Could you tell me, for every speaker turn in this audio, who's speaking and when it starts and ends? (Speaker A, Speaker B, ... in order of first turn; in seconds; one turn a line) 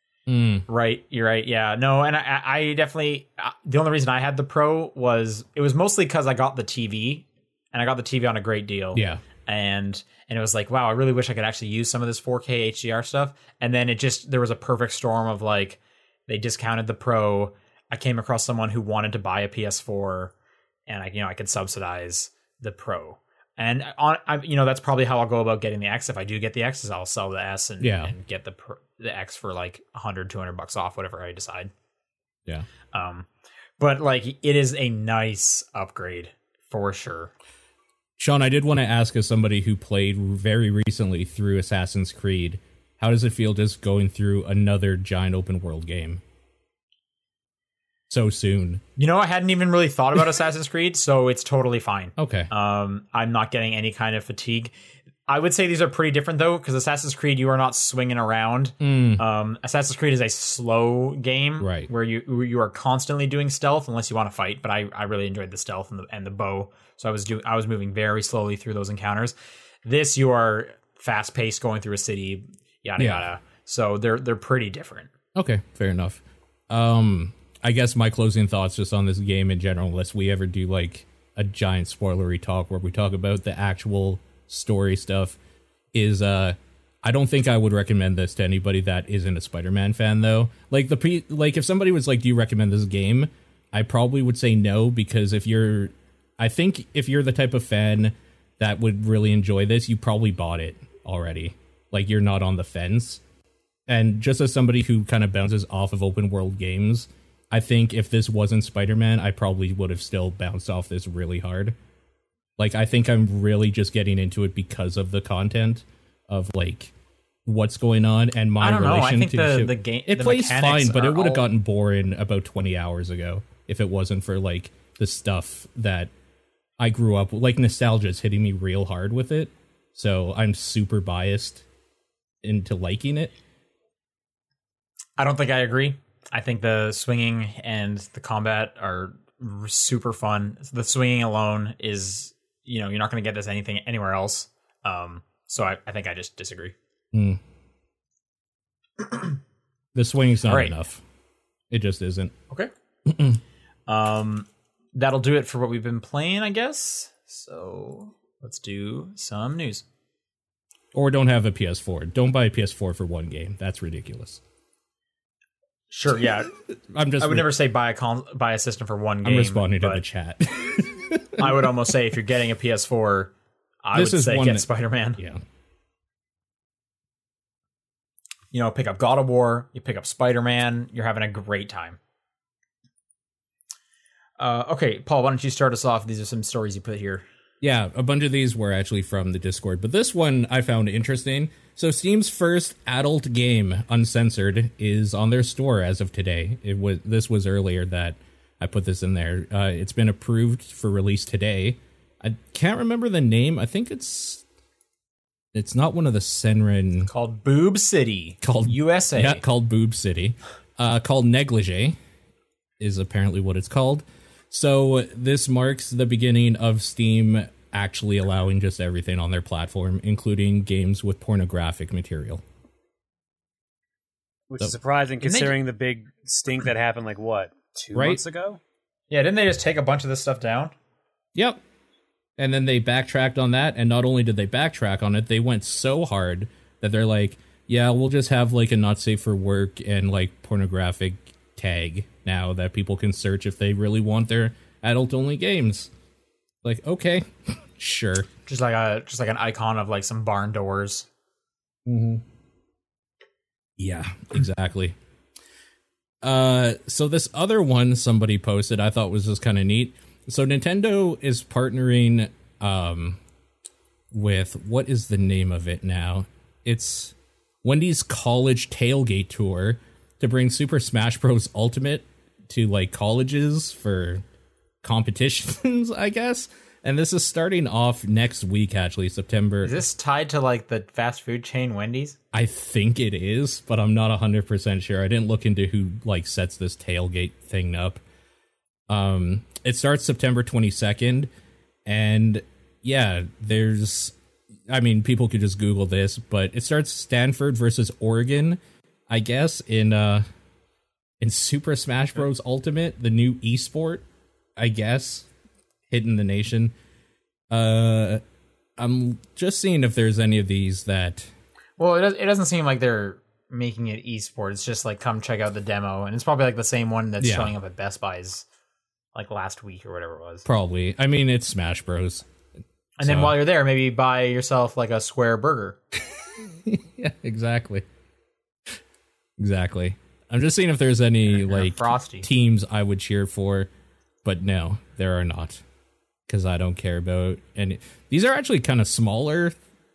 Speaker A: 0.3-0.7
Speaker B: 0.7-20.3
Speaker A: 8.9-9.2
Speaker B: 20.9-31.7
Speaker A: 27.8-28.1
Speaker B: 32.9-33.3
Speaker B: 33.8-37.3
Speaker A: 38.2-46.2
Speaker A: 48.1-48.8
Speaker B: 49.0-54.7
Speaker A: 52.2-52.5
Speaker B: 55.3-69.3
Speaker A: 58.8-59.2
Speaker A: 61.6-61.9
Speaker B: 69.8-75.1
Speaker A: 73.0-73.2
Speaker A: 75.3-85.4
Speaker A: 85.9-103.2
Speaker A: 103.9-111.8
Speaker A: 112.6-116.9
Speaker A: 117.5-126.1
Speaker B: 118.6-121.5
Speaker A: 126.8-131.6
Speaker A: 132.4-133.3
Speaker B: 135.2-146.8
Speaker A: 147.1-147.4
Speaker B: 149.0-149.4
Speaker A: 149.9-151.0
Speaker B: 150.4-150.8
Speaker A: 151.7-152.3
Speaker A: 153.1-153.4
Speaker B: 153.9-159.8
Speaker A: 160.9-164.4
Speaker B: 165.9-166.5
Speaker A: 166.8-167.5
Speaker B: 167.2-170.0
Speaker A: 169.2-171.7
Speaker B: 171.4-173.3
Speaker B: 173.8-175.2
Speaker A: 173.9-174.7
Speaker B: 178.5-182.0
Speaker B: 184.4-187.2
Speaker A: 187.6-204.4
Speaker A: 205.5-207.1
Speaker B: 207.1-209.4
Speaker A: 208.4-212.0
Speaker A: 212.8-222.4
Speaker C: 224.5-228.6
Speaker B: 225.2-225.6
Speaker A: 227.9-228.2
Speaker B: 229.1-230.7
Speaker A: 231.3-231.6
Speaker A: 232.4-245.9
Speaker A: 246.6-248.3
Speaker B: 248.5-251.1
Speaker A: 251.9-252.2
Speaker A: 253.8-254.9
Speaker A: 256.2-263.2
Speaker A: 264.1-274.2
Speaker A: 274.8-279.8
Speaker B: 279.6-282.2
Speaker A: 282.3-288.0
Speaker A: 288.9-291.3
Speaker A: 291.9-294.1
Speaker A: 294.7-300.2
Speaker A: 301.2-304.1
Speaker A: 304.6-305.3
Speaker A: 305.9-306.8
Speaker A: 307.5-308.2
Speaker A: 308.8-311.3
Speaker B: 311.8-318.4
Speaker A: 317.2-317.5
Speaker B: 319.1-320.4
Speaker A: 320.5-322.3
Speaker B: 323.0-325.8
Speaker A: 323.1-323.4
Speaker A: 326.2-327.9
Speaker A: 329.4-333.7
Speaker B: 331.3-332.3
Speaker A: 334.2-335.6
Speaker A: 336.3-339.6